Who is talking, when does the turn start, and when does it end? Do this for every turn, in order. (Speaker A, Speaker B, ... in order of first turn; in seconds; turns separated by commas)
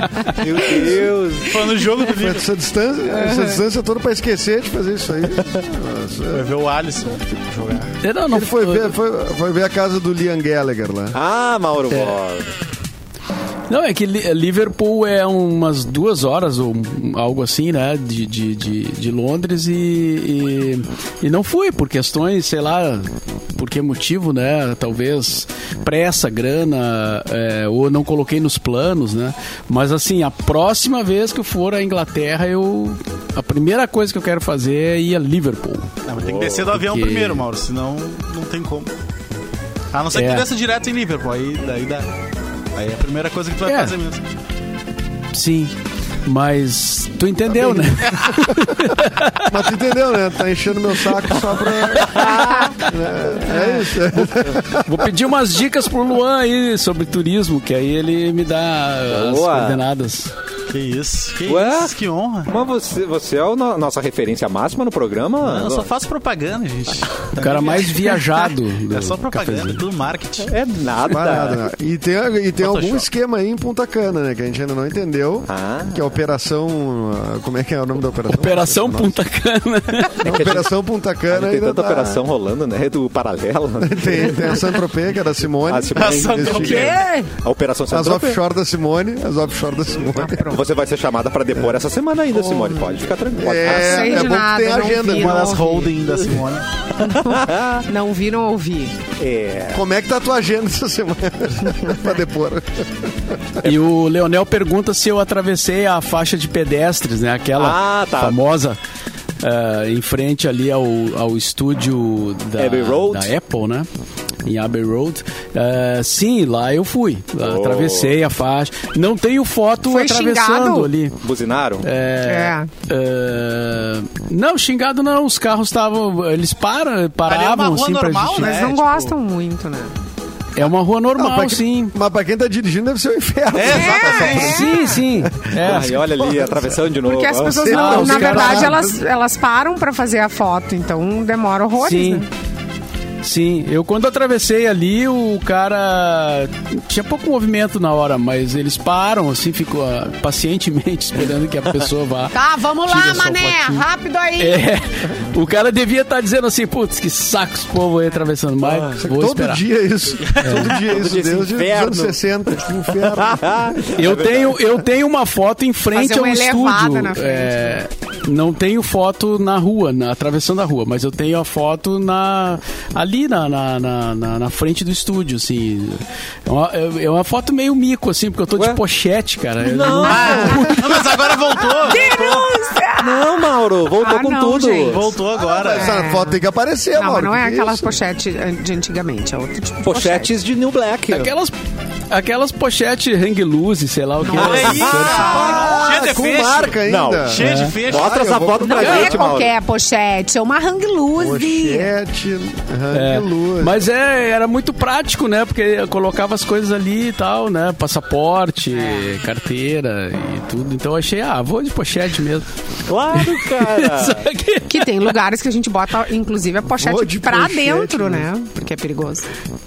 Speaker A: 0.3-1.5, Speaker B: 0.6-1.1, Speaker C: 1.4-2.5, Speaker B: 2.1-6.5, Speaker D: 3.1-3.6, Speaker C: 6.3-8.0, Speaker E: 8.0-8.9, Speaker B: 8.3-11.2, Speaker A: 11.1-12.5, Speaker E: 13.7-35.9, Speaker C: 36.0-38.9, Speaker A: 36.2-36.7, Speaker E: 36.7-37.4, Speaker C: 39.9-42.1, Speaker E: 40.1-40.5, Speaker C: 42.7-44.2, Speaker E: 43.6-43.9, Speaker E: 45.3-45.7, Speaker E: 46.2-49.5, Speaker B: 47.6-48.9, Speaker B: 49.4-55.1, Speaker A: 52.0-52.5, Speaker D: 52.4-52.7, Speaker D: 53.4-54.0, Speaker E: 54.7-60.3, Speaker A: 59.1-59.8, Speaker C: 60.7-62.5, Speaker A: 61.5-61.9, Speaker A: 62.4-65.9, Speaker C: 65.4-68.3, Speaker E: 67.4-69.8, Speaker C: 68.9-70.5, Speaker A: 70.4-71.7, Speaker B: 71.1-79.1, Speaker C: 72.6-73.0, Speaker A: 75.5-76.1, Speaker E: 78.3-80.2, Speaker B: 80.2-82.2, Speaker A: 80.2-80.7, Speaker A: 81.3-84.7, Speaker B: 83.8-87.0, Speaker A: 85.7-88.4, Speaker C: 85.9-87.0, Speaker D: 86.5-87.3, Speaker B: 87.9-90.5, Speaker D: 90.1-90.6, Speaker A: 90.5-94.3, Speaker D: 92.3-93.0, Speaker B: 93.3-95.6, Speaker D: 93.6-96.0, Speaker C: 95.1-96.7, Speaker A: 97.0-97.8, Speaker D: 97.0-99.0, Speaker A: 99.2-99.8, Speaker B: 99.7-103.1, Speaker E: 103.6-108.8, Speaker A: 107.6-108.4, Speaker E: 109.4-113.9, Speaker A: 112.6-113.3, Speaker E: 114.4-121.2, Speaker A: 117.4-118.2, Speaker D: 119.8-120.9, Speaker A: 121.2-121.9, Speaker E: 121.8-128.6, Speaker D: 122.2-122.7, Speaker C: 127.2-129.1, Speaker D: 128.4-129.9, Speaker E: 130.6-131.9, Speaker B: 131.2-136.7, Speaker C: 133.5-134.3, Speaker D: 133.6-135.0, Speaker E: 134.2-136.0, Speaker A: 135.6-137.8, Speaker D: 137.0-142.3, Speaker B: 137.6-139.0, Speaker E: 137.7-138.8, Speaker E: 141.8-142.2, Speaker E: 143.2-153.8, Speaker D: 152.3-154.6, Speaker E: 154.4-159.6, Speaker A: 158.6-158.9, Speaker B: 159.0-163.9, Speaker E: 160.4-160.7, Speaker A: 160.6-164.8, Speaker E: 163.9-181.2, Speaker D: 165.9-167.8, Speaker A: 179.6-180.6, Speaker D: 180.1-180.6, Speaker C: 180.1-182.5, Speaker D: 181.8-183.5, Speaker A: 183.0-185.1, Speaker D: 184.0-186.4, Speaker C: 184.8-186.0, Speaker B: 185.5-188.0, Speaker D: 186.9-190.3, Speaker A: 189.8-191.3, Speaker E: 191.1-191.5, Speaker E: 192.1-195.4, Speaker D: 194.3-195.6, Speaker C: 194.3-198.4, Speaker A: 194.3-196.0, Speaker B: 195.2-199.1, Speaker A: 196.8-199.5, Speaker E: 197.4-197.8, Speaker D: 198.6-201.9, Speaker E: 198.8-199.1, Speaker B: 201.2-203.8, Speaker E: 202.9-212.5, Speaker D: 208.7-209.1, Speaker A: 212.9-214.2, Speaker E: 213.1-215.1, Speaker D: 214.7-219.3, Speaker B: 216.8-218.3